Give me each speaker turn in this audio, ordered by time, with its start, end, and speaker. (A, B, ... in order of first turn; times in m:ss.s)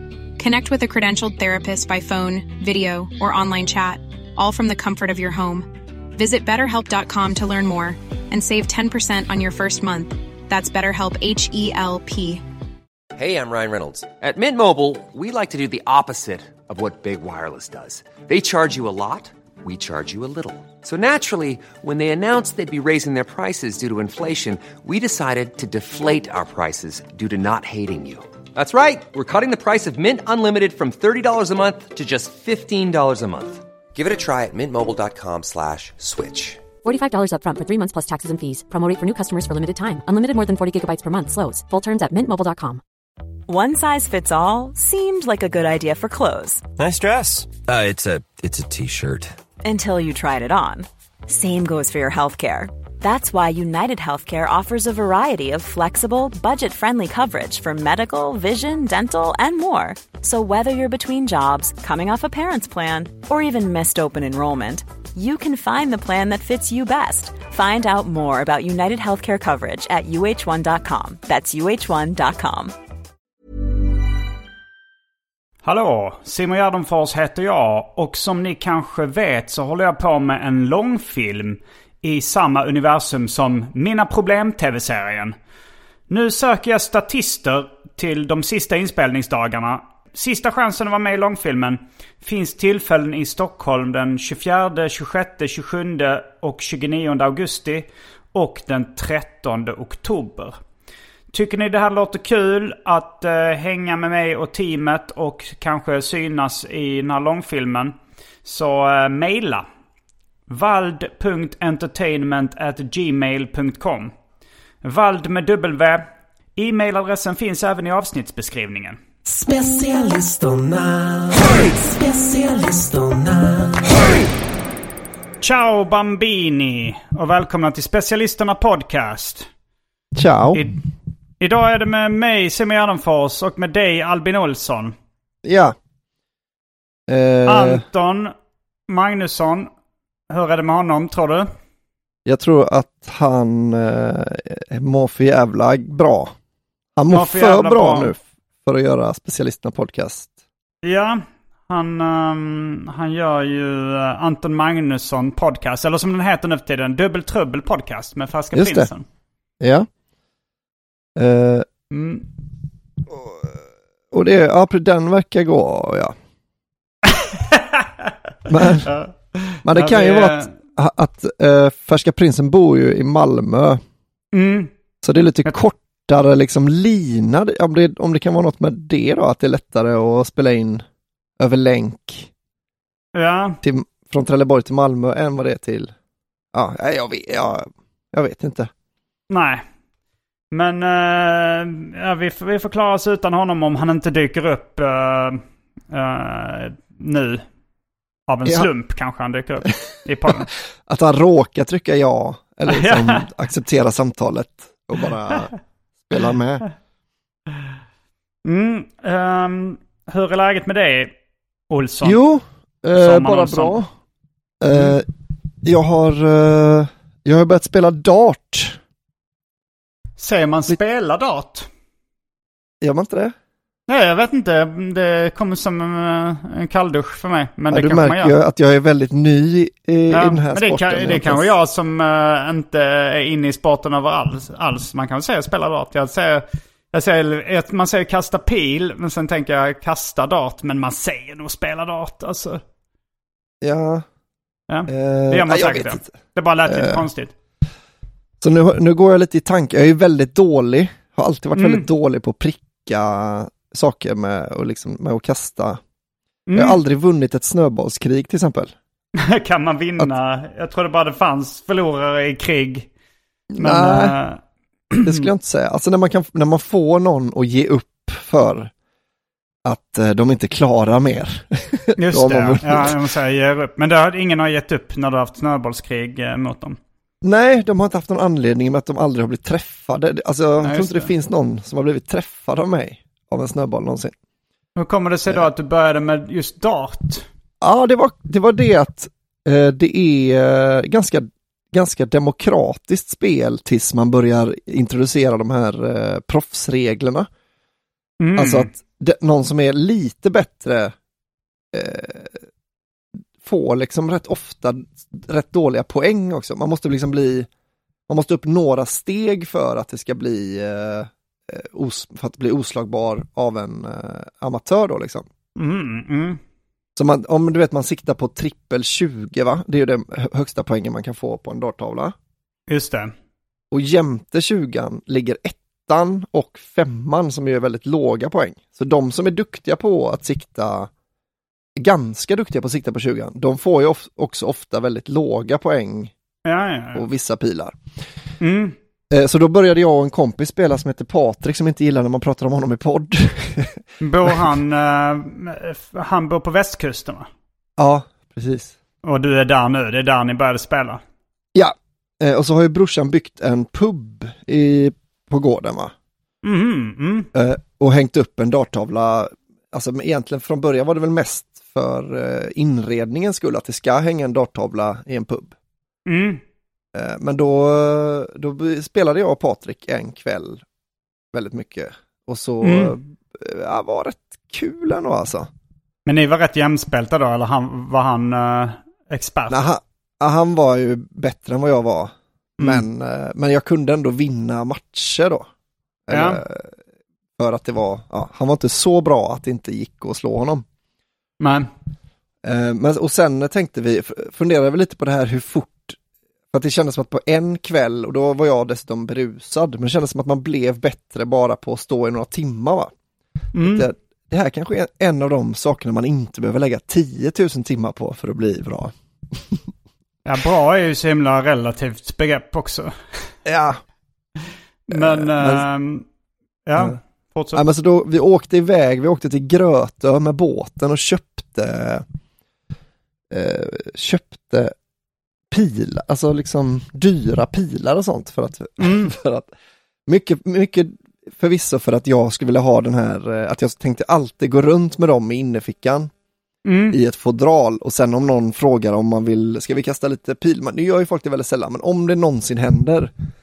0:00.4-0:12.4 A
0:13.2-0:36.6 B
0:36.8-0:42.8 C
0:43.5-0:46.6 D
0:46.8-0:49.3 E
0:49.6-1:12.7 D
1:15.6-1:25.3 F
1:26.1-1:40.6 F
1:41.3-1:47.9 F
1:48.4-1:49.6 F
1:50.5-1:54.1 F
1:54.8-1:59.0 F
1:59.3-2:03.7 G
2:05.4-2:09.5 F
2:10.1-2:10.7 H
2:11.4-2:14.9 F
2:15.4-2:15.7 H
2:17.1-2:17.8 H
2:17.4-2:18.3 F
2:18.9-2:19.7 F
2:20.3-2:21.5 F
2:22.2-2:26.3 H
2:27.0-2:30.3 H
2:27.1-2:28.1 F
2:30.8-2:39.0 F
2:38.5-2:38.9 H
2:39.6-2:39.9 H
2:41.2-2:41.7 H
2:41.9-2:42.2 F
2:43.1-2:43.4 H
2:44.1-2:46.1 H
2:47.2-2:47.8 F
2:48.5-2:48.9 H
2:48.6-2:50.5 F
2:49.6-2:53.8 H
2:54.3-2:54.7 F
2:55.0-3:00.8 H
3:01.4-3:02.3 H
3:03.2-3:03.6 F
3:03.6-3:05.9 H
3:06.5-3:08.7 H
3:09.3-3:09.6 F
3:10.5-3:17.4 F
3:18.3-3:20.5 F
3:18.4-3:18.7 H
3:20.8-3:26.6 H
3:22.7-3:23.2 F
3:28.4-3:31.1 F
3:31.7-3:32.2 F
3:32.0-3:33.9 H
3:33.0-3:33.8 F
3:34.6-3:35.0 H
3:35.6-3:38.8 H
3:40.2-3:41.7 F
3:42.8-3:43.3 H
3:43.9-3:48.3 F
3:47.7-3:51.5 H
3:50.1-4:02.6 F
4:03.6-4:04.0 H
4:04.7-4:07.3 F
4:04.9-4:06.1 H
4:06.7-4:07.1 H
4:08.4-4:15.8 H
4:11.5-4:11.9 F
4:16.5-4:16.8 F
4:16.5-4:18.7 H
4:19.2-4:22.9 F
4:23.5-4:24.2 H
4:23.6-4:24.4 F
4:24.9-4:25.3 F
4:25.0-4:28.7 H
4:29.6-4:33.0 H
4:32.0-4:36.8 F
4:37.2-4:44.1 H
4:40.6-4:41.1 F
4:44.8-4:47.2 F
4:47.6-4:57.3 H
4:58.2-4:58.7 F
4:58.4-5:00.9 H
5:01.7-5:02.4 H
5:03.4-5:07.5 H
5:08.1-5:15.3 H
5:15.6-5:16.4 F
5:17.0-5:22.1 H
5:22.7-5:23.1 F
5:23.7-5:30.9 H
5:31.8-5:36.1 H
5:36.4-5:37.0 F
5:36.9-5:37.8 H
5:38.4-5:38.8 F
5:39.1-5:44.4 H
5:44.0-5:47.3 F
5:47.8-5:48.7 H
5:49.0-5:51.0 F
5:51.5-5:55.9 H
5:56.4-5:57.3 F
5:57.3-6:05.5 H
6:06.0-6:06.4 F
6:06.9-6:10.6 H
6:11.3-6:15.5 H
6:12.6-6:12.9 F
6:16.0-6:19.6 F
6:19.5-6:25.5 H
6:22.6-6:22.8 F
6:26.1-6:26.7 H
6:26.1-6:26.4 F
6:27.4-6:30.6 H
6:31.4-6:31.7 F
6:32.4-6:36.0 H
6:36.5-6:42.9 H
6:43.6-6:43.9 F
6:43.6-6:49.6 H
6:50.2-6:52.9 F
6:53.4-6:53.8 H
6:54.9-6:56.0 F
6:54.9-6:55.6 H
6:56.6-6:57.6 F
6:57.5-7:02.0 H
7:03.3-7:04.7 H
7:05.5-7:09.5 H
7:08.8-7:09.1 F
7:10.1-7:16.1 H
7:16.6-7:17.0 F
7:16.9-7:23.1 H